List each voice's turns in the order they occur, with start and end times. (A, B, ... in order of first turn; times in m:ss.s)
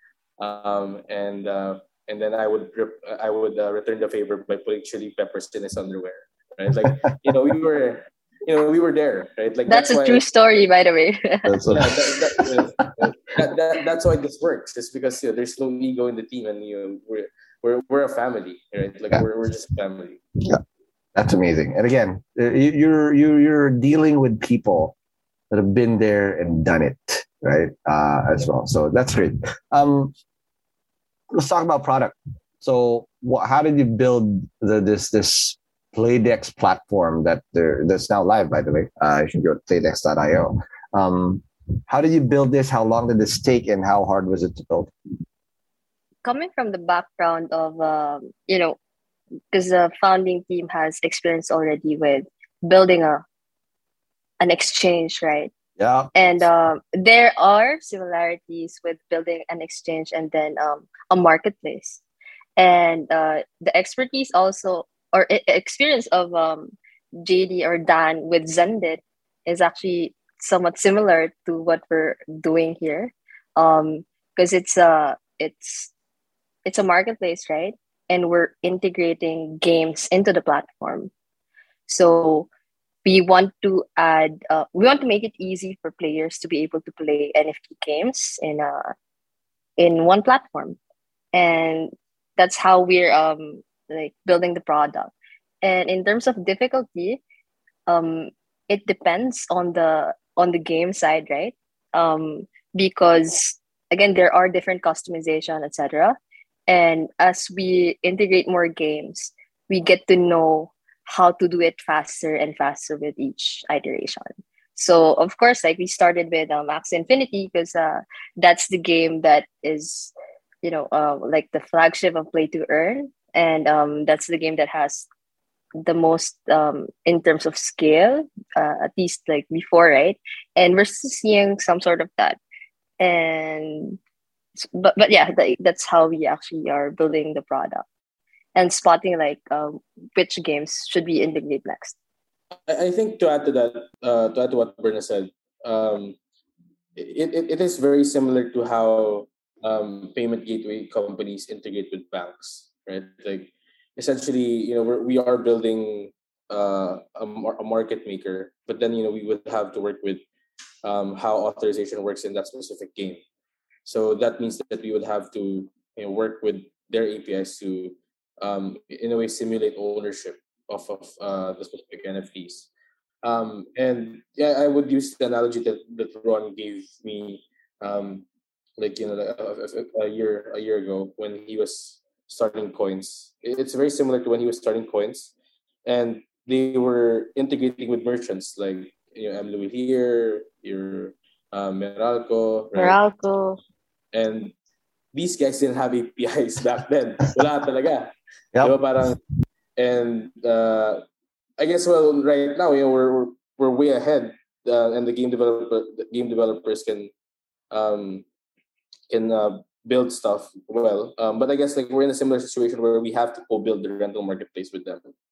0:00.4-0:10.2 A
0:09.7-0:11.6 B
0:11.5-0:12.9 C
0:11.7-0:20.2 A
0:21.2-0:24.9 C
0:25.5-0:30.1 C
0:31.3-0:44.9 C
0:46.2-0:48.8 B
0:49.5-0:53.2 B
0:54.4-0:55.5 B
0:55.8-0:56.1 C
0:56.2-1:02.0 B
1:02.6-1:15.9 B
1:16.6-1:21.1 B
1:21.9-1:22.5 B
1:23.0-1:28.9 B
1:29.8-1:30.8 B
1:31.3-1:35.1 B
1:35.6-1:37.2 B
1:37.9-1:46.2 B
1:46.7-2:00.1 B
2:00.6-2:05.1 B
2:05.8-2:12.4 B
2:13.0-2:14.0 B
2:14.6-2:17.9 B
2:18.6-2:22.0 B
2:22.7-2:26.2 A
2:27.0-2:40.2 A
2:40.8-2:43.2 A
2:43.8-2:52.7 A
2:53.2-2:58.2 A
2:58.8-3:05.3 A
3:05.9-3:13.0 A
3:12.8-3:13.6 B
3:14.1-3:14.5 A
3:15.1-3:19.2 A
3:19.8-3:21.0 A
3:21.6-3:27.1 A
3:27.7-3:28.2 A
3:29.1-3:35.1 A